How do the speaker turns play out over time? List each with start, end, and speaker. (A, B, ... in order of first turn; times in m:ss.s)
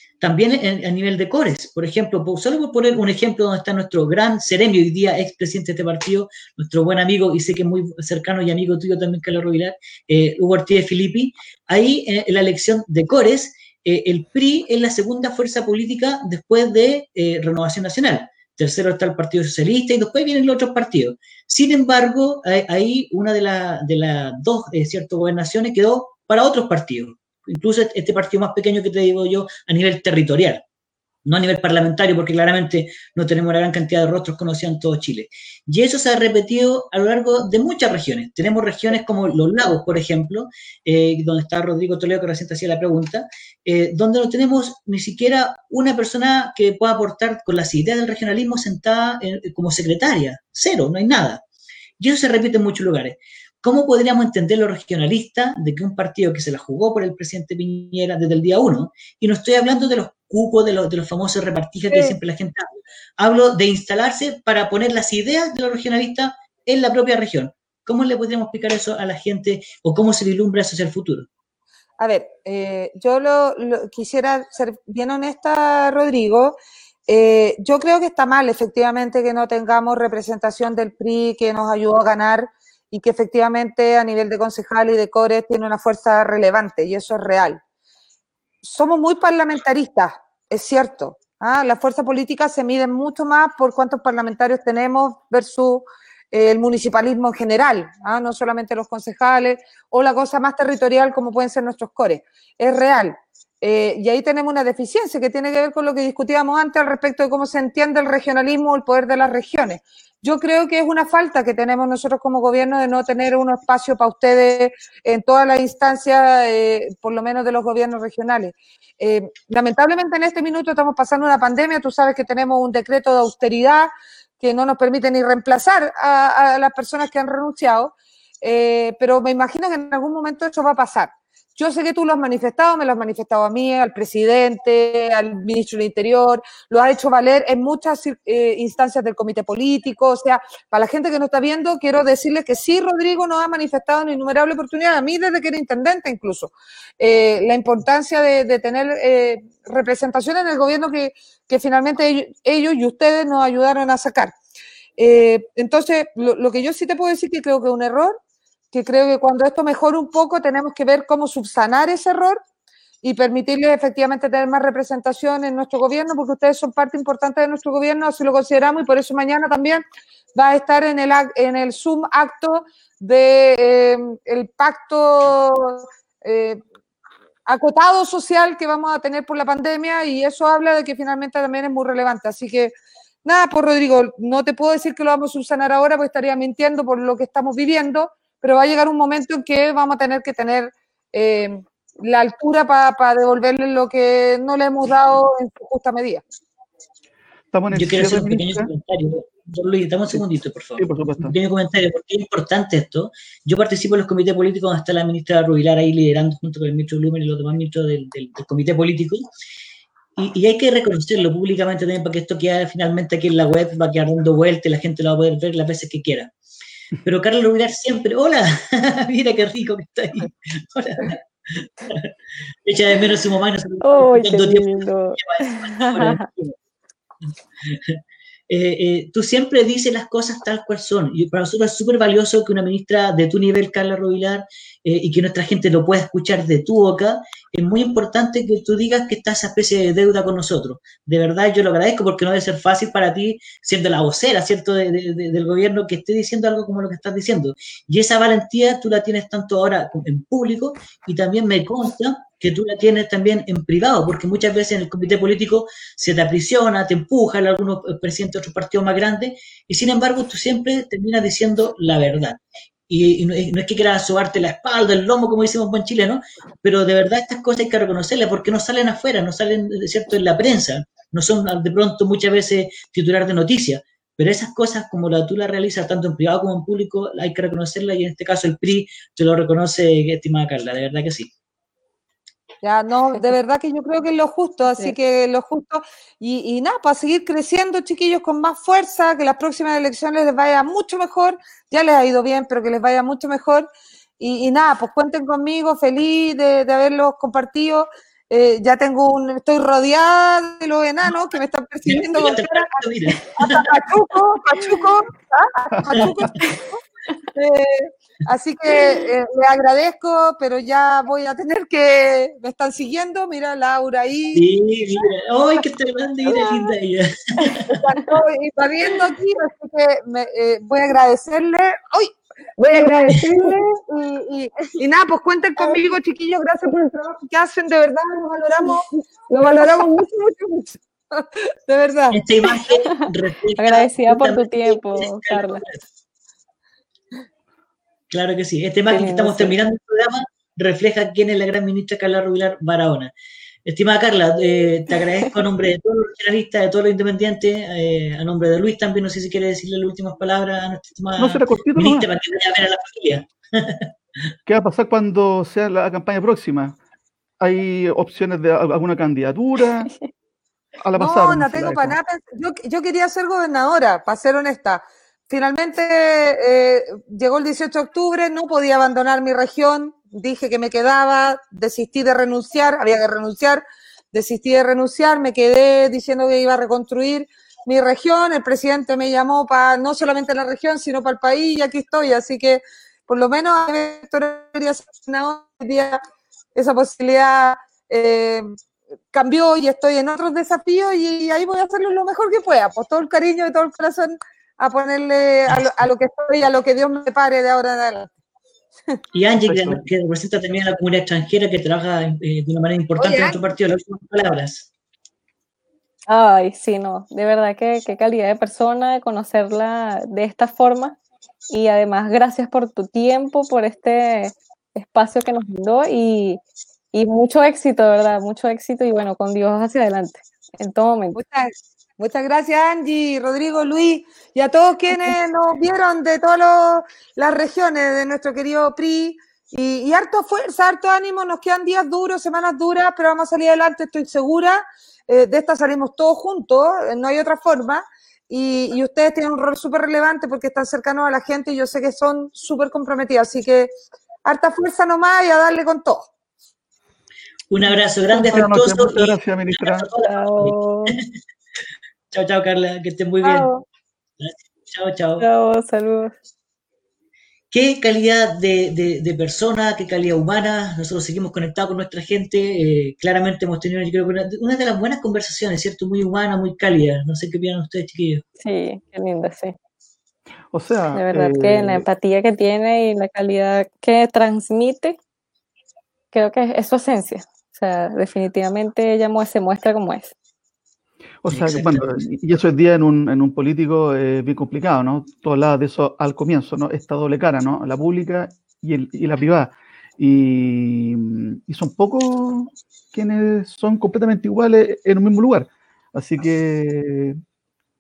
0:00.2-0:30.6 A
0:31.2-0:51.4 A
0:52.0-1:11.3 A
1:01.9-1:02.2 B
1:12.0-1:16.6 B
1:17.1-1:27.6 B
1:28.6-2:34.3 B
2:35.0-2:38.2 B
2:38.7-2:42.4 B
2:43.0-2:49.8 B
2:50.3-2:56.6 B
2:57.4-3:16.2 B
3:17.5-3:18.7 C
3:17.7-3:29.2 A
3:20.8-3:21.3 C
3:30.2-3:36.3 A
3:37.0-3:42.1 A
3:42.6-3:46.6 A
3:43.8-3:46.2 D
3:47.6-4:41.3 A
4:42.6-4:53.7 B
4:54.2-5:06.8 B
5:01.8-5:03.7 A
5:05.8-5:06.2 C
5:05.9-5:06.2 A
5:07.3-5:14.4 B
5:14.3-5:17.8 A
5:16.3-5:16.7 B
5:17.7-5:32.2 B
5:32.1-5:35.8 A
5:33.6-5:35.6 D
5:38.1-5:43.1 A
5:38.9-5:39.5 D
5:43.6-5:53.9 A
5:51.2-5:52.1 C
5:54.4-5:56.8 C
5:57.4-5:59.9 C
6:00.8-6:02.0 C
6:01.0-6:26.0 B
6:26.5-6:28.5 B
6:29.1-6:38.2 B
6:39.1-6:44.7 A
6:39.4-6:39.8 C
6:43.0-6:43.4 B
6:46.1-6:51.0 D
6:51.5-6:56.4 D
6:56.9-7:01.2 D
7:01.1-7:23.7 B
7:24.2-7:26.1 B
7:27.5-7:31.0 A
7:28.1-7:29.9 C
7:30.0-7:31.0 D
7:32.1-7:33.5 A
7:33.2-7:33.6 B
7:34.2-7:35.2 A
7:35.2-7:36.1 D
7:37.5-7:48.2 A
7:48.4-7:49.6 D
7:50.5-7:51.8 C
7:50.9-7:55.0 D
7:56.1-8:00.1 D
8:01.2-8:17.2 C
8:01.3-8:02.0 A